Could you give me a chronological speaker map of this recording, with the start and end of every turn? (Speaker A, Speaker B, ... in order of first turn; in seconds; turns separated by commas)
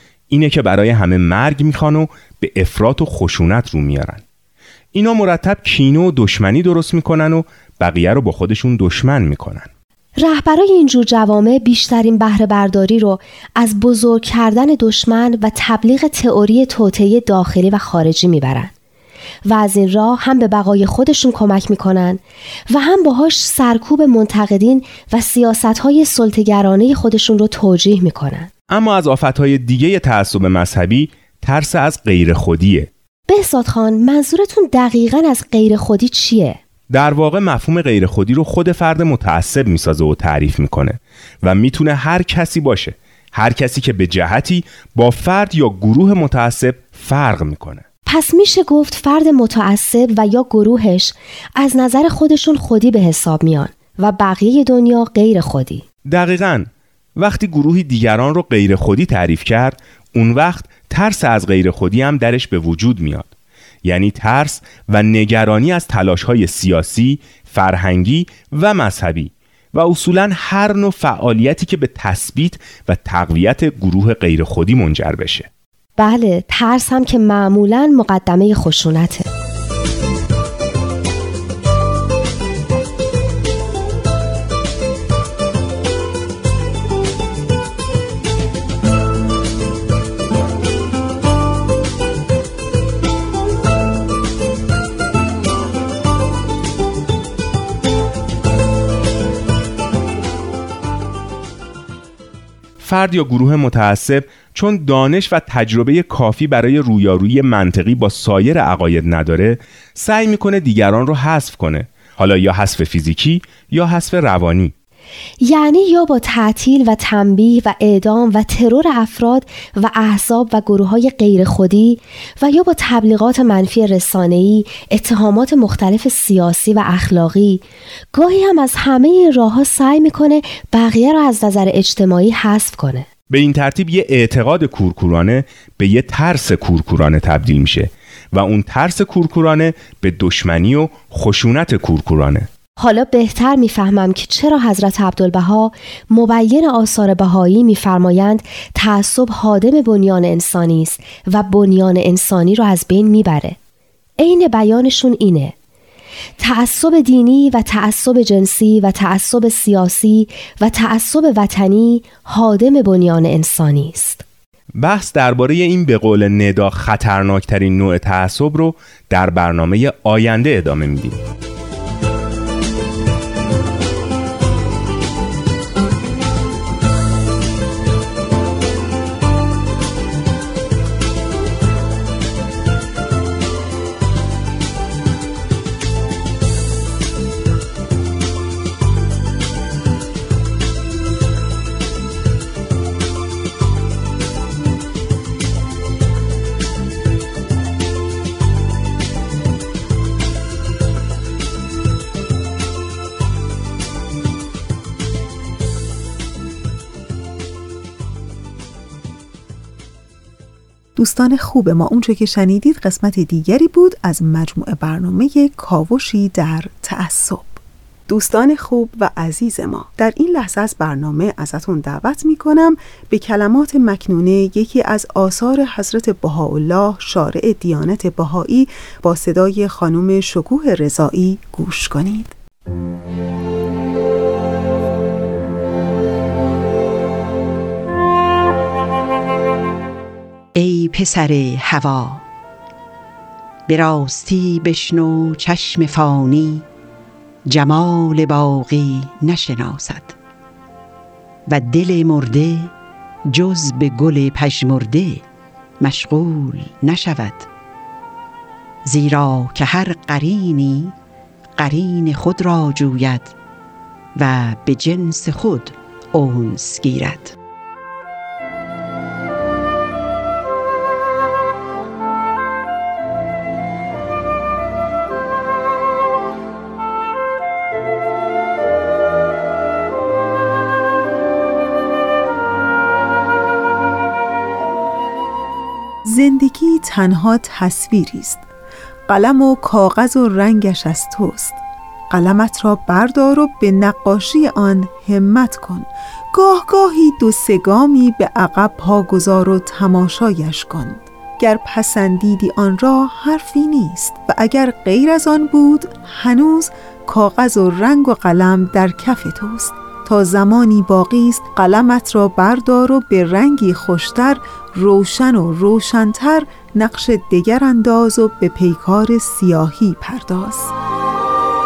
Speaker A: 0.3-4.2, Speaker A: 4.9-9.7, Speaker B: 10.2-18.7, Speaker B: 19.4-22.2, Speaker B: 22.7-28.5, Speaker A: 28.7-32.9, Speaker B: 33.3-36.6, Speaker A: 36.9-47.8, Speaker B: 48.1-55.9, Speaker A: 56.1-56.7, Speaker A: 57.2-63.3, Speaker A: 63.8-75.5, Speaker B: 76.0-79.2, Speaker A: 102.8-114.7, Speaker B: 115.4-127.6, Speaker B: 128.1-133.1, Speaker A: 133.3-142.5, Speaker B: 142.8-153.6, Speaker B: 154.2-155.5, Speaker B: 156.4-164.2, Speaker A: 164.8-171.2, Speaker C: 210.9-232.3, Speaker D: 240.5-242.2, Speaker D: 243.7-246.6, Speaker D: 247.5-250.1, Speaker D: 251.5-252.7, Speaker D: 253.3-255.2, Speaker D: 255.8-257.5, Speaker D: 258.8-260.9, Speaker D: 261.6-263.3, Speaker D: 264.1-267.3, Speaker C: 286.1-288.4, Speaker C: 289.1-320.7